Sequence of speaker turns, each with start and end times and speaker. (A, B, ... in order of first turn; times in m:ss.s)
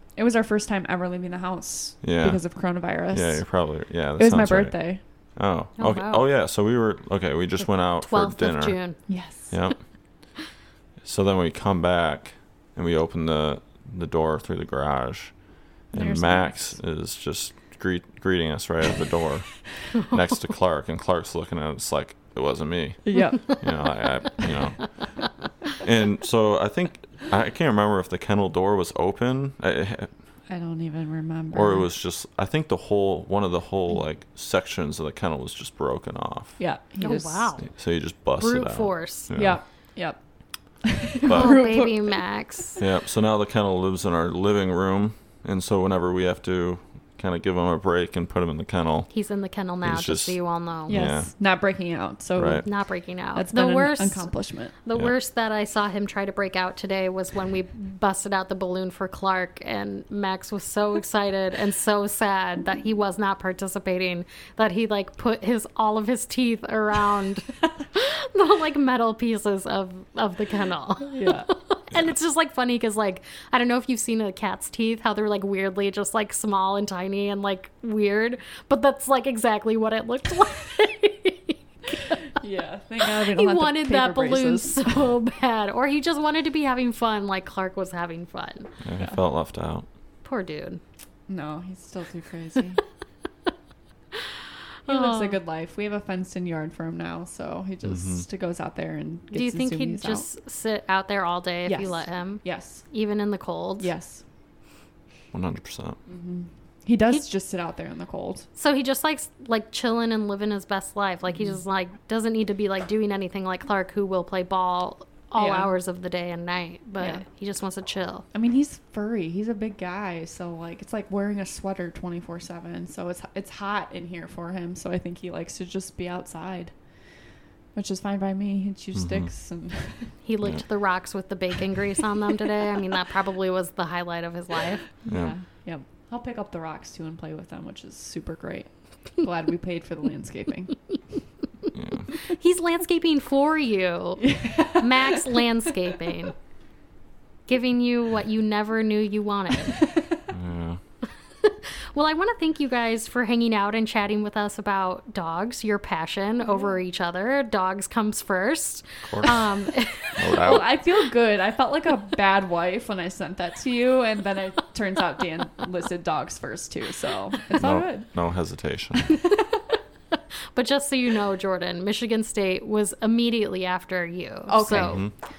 0:00.2-0:03.6 A
0:02.0-0:02.4 B
0:03.1-0:04.8 B
0:04.2-0:05.0 A
0:05.4-0:08.8 B
0:05.8-0:06.2 C
0:07.6-0:09.0 C
0:09.1-0:09.6 A
0:09.5-0:09.8 B
0:11.0-0:15.4 B
0:15.9-0:24.9 B
0:15.9-0:16.8 A
0:23.0-0:23.6 A
0:25.8-0:30.1 B
0:30.5-0:31.9 A
0:31.5-0:36.6 B
0:36.6-0:37.5 A
0:37.0-0:37.7 C
0:37.6-0:39.6 B
0:38.4-0:39.3 C
0:39.3-0:40.3 A
0:40.8-0:42.3 A
0:41.2-0:41.6 B
0:41.3-0:42.8 C
0:42.8-0:49.1 B
0:49.1-0:51.1 C
0:49.8-0:51.3 B
0:50.9-0:52.7 A
0:52.3-0:52.6 B
0:52.6-0:54.3 C
0:53.3-0:54.7 A
0:54.8-1:22.2 C
1:11.1-1:11.5 A
1:22.4-1:25.1 A
1:23.0-1:28.7 C
1:28.8-1:29.8 B
1:30.2-1:30.8 C
1:31.3-1:32.8 A
1:34.9-1:35.4 C
1:34.9-1:40.2 A
1:37.8-1:38.2 B
1:39.3-1:43.9 C
1:41.6-1:42.8 A
1:43.8-1:44.2 A
1:45.3-1:46.0 B
1:46.1-1:48.5 A
1:48.6-1:58.2 C
1:55.4-1:55.7 A
1:58.3-2:06.7 A
2:07.7-2:10.1 A
2:08.9-2:09.3 B
2:10.2-2:14.8 C
2:15.0-2:20.8 A
2:15.1-2:15.3 B
2:21.7-2:22.1 B
2:22.2-2:26.3 C
2:24.2-2:25.5 A
2:27.5-2:29.8 C
2:29.7-2:30.0 A
2:30.3-2:30.8 B
2:31.4-2:40.5 C
2:39.0-2:39.5 B
2:40.2-2:40.7 B
2:40.3-2:48.1 A
2:47.6-2:49.2 B
2:49.0-2:49.5 A
2:50.5-2:55.1 C
2:54.5-2:55.0 A
2:54.7-2:55.1 B